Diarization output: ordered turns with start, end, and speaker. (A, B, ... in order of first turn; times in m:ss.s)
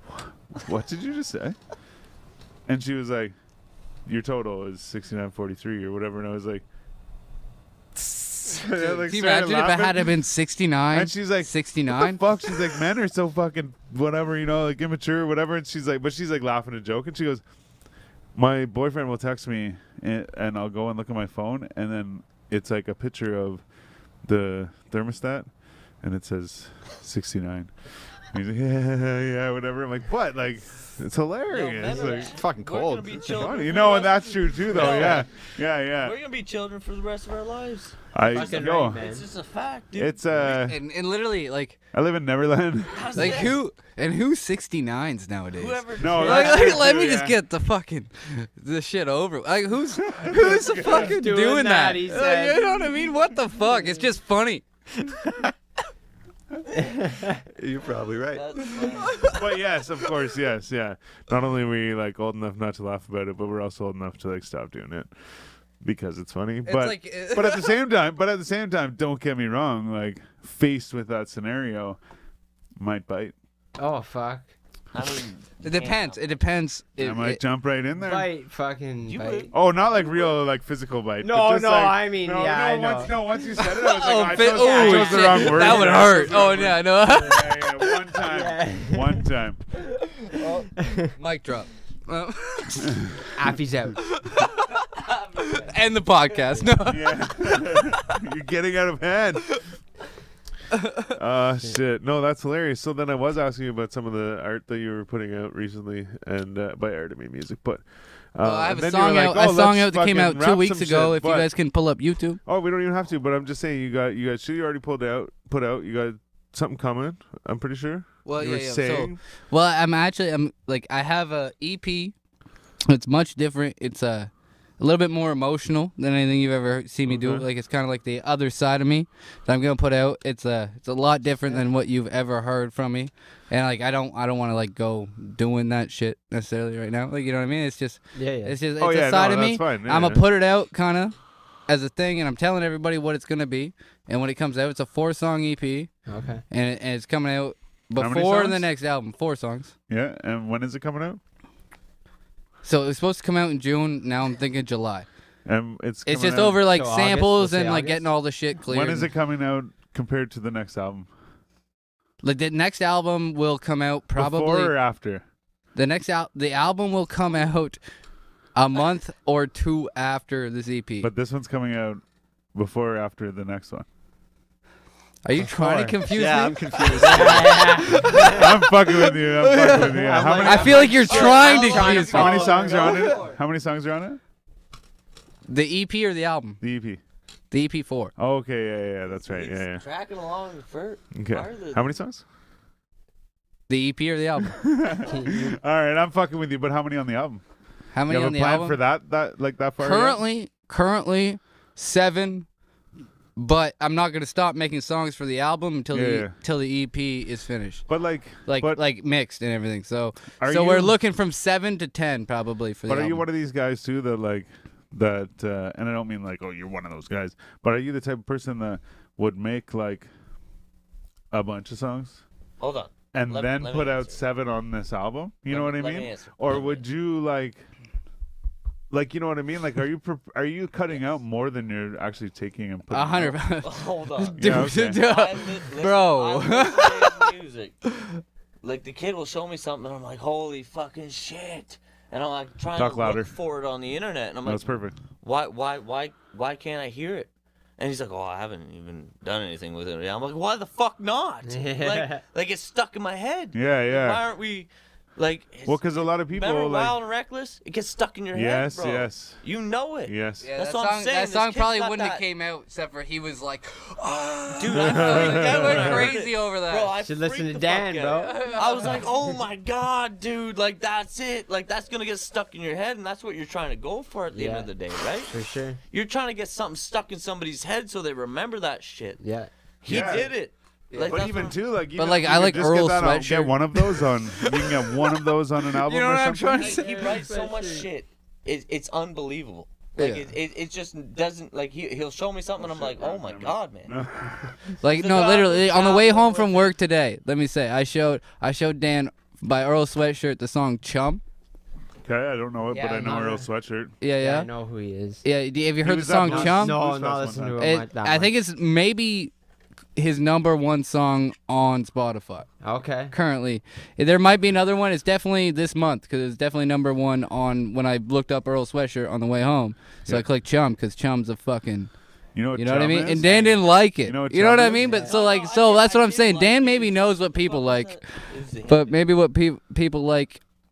0:00.5-0:01.6 A
0:02.7-0:03.4 A
0:04.1-0:06.6 A
0:08.0-0:10.2 A
0:08.8-0:12.2 B
0:10.9-0:17.4 A
0:18.4-0:23.6 A
0:24.2-0:25.5 A
0:26.0-0:27.7 A
0:28.3-0:32.3 A
0:31.5-0:35.3 C
0:31.9-0:33.4 D
0:33.3-0:36.2 A
0:36.0-0:40.4 C
0:38.1-0:39.0 A
0:38.3-0:39.3 E
0:40.0-0:40.8 A
0:40.5-0:41.8 B
0:41.9-0:43.4 A
0:42.9-0:43.6 C
0:43.2-0:54.6 B
0:45.5-0:46.8 C
0:46.0-0:47.4 A
0:50.0-0:51.2 A
0:50.8-0:52.8 E
0:56.8-0:57.4 E
0:57.6-0:58.8 D
0:58.3-0:59.3 C
0:59.1-0:59.4 B
0:59.2-1:05.1 A
1:05.8-1:12.0 A
1:06.6-1:07.8 B
1:12.8-1:13.3 A
1:13.8-1:14.5 E
1:14.9-1:16.4 C
1:15.6-1:17.5 B
1:17.0-1:18.3 A
1:18.0-1:19.5 E
1:19.0-1:19.5 C
1:19.5-1:29.6 A
1:21.2-1:23.2 E
1:23.6-1:27.9 B
1:24.4-1:26.0 E
1:28.2-1:29.3 E
1:30.8-1:31.1 E
1:31.2-1:33.1 B
1:33.4-1:34.0 E
1:34.2-1:34.5 B
1:35.4-1:37.2 B
1:36.9-1:39.6 A
1:40.7-1:41.0 B
1:41.1-1:47.8 A
1:48.4-1:51.5 A
1:48.4-1:52.4 B
1:52.4-1:59.2 A
1:58.2-2:02.1 B
2:02.9-2:21.1 B
2:07.1-2:07.5 A
2:18.2-2:18.6 E
2:18.8-2:20.2 A
2:21.7-2:25.9 B
2:26.1-2:26.4 E
2:26.5-2:29.7 B
2:28.0-2:28.7 A
2:29.9-2:31.2 A
2:32.6-2:35.1 B
2:35.5-2:36.7 A
2:36.1-2:39.1 B
2:36.7-2:38.1 E
2:38.6-2:41.1 A
2:42.2-2:44.8 B
2:44.2-2:45.2 A
2:45.8-2:47.8 B
2:48.6-2:51.1 B
2:51.0-2:52.0 A
2:52.6-2:53.9 A
2:55.2-3:03.1 B
2:55.5-2:55.9 E
2:56.1-2:58.0 D
2:57.0-2:58.5 E
2:58.2-3:01.0 A
2:59.8-3:03.1 E
3:00.8-3:03.3 C
3:01.6-3:04.2 A
3:05.5-3:06.6 B
3:06.6-3:07.0 A
3:07.5-3:08.1 B
3:08.2-3:09.8 A
3:09.3-3:11.9 C
3:11.2-3:12.2 A
3:13.7-3:14.8 B
3:14.6-3:17.4 A
3:15.0-3:15.6 E
3:17.9-3:18.8 B
3:18.1-3:20.2 A
3:19.8-3:22.5 B
3:23.4-3:27.9 B
3:25.9-3:26.4 A
3:27.9-3:28.8 A
3:28.4-3:33.3 B
3:30.4-3:31.0 A
3:32.9-3:40.1 A
3:41.3-3:42.2 A
3:42.6-3:44.2 C
3:43.1-3:47.6 A
3:45.5-3:46.8 C
3:48.9-3:53.4 A
3:52.9-3:57.3 B
3:53.6-3:57.8 C
3:54.4-3:55.0 A
3:58.6-4:22.2 C
4:02.8-4:03.3 A
4:04.4-4:05.0 A
4:11.4-4:12.2 E
4:13.5-4:14.2 A
4:15.7-4:17.0 A
4:18.3-4:19.4 A
4:20.1-4:20.5 A
4:20.4-4:26.9 B
4:24.5-4:35.3 C
4:24.8-4:26.0 A
4:27.0-4:29.3 E
4:28.2-4:29.0 B
4:34.3-4:34.7 E
4:35.2-4:35.8 E
4:35.9-4:39.2 C
4:39.2-4:40.3 E
4:39.8-4:41.6 C
4:39.9-4:40.3 A
4:40.9-4:41.3 B
4:41.1-4:46.7 A
4:42.0-4:45.1 B
4:45.7-4:47.2 B
4:46.6-4:47.9 E
4:46.6-4:53.9 C
4:50.0-4:50.3 B
4:52.6-4:54.5 A
4:54.8-5:01.2 B
4:54.8-4:56.7 C
5:02.0-5:03.9 A
5:02.7-5:03.5 E
5:04.0-5:04.5 B
5:04.2-5:05.3 E
5:05.2-5:06.8 B
5:05.8-5:07.6 A
5:06.2-5:08.4 E
5:07.6-5:09.3 B
5:10.0-5:12.5 B
5:12.6-5:13.2 E
5:13.1-5:21.9 B
5:22.4-5:25.0 A
5:22.6-5:28.0 B
5:24.8-5:25.2 E
5:24.9-5:29.0 C
5:28.7-5:30.4 B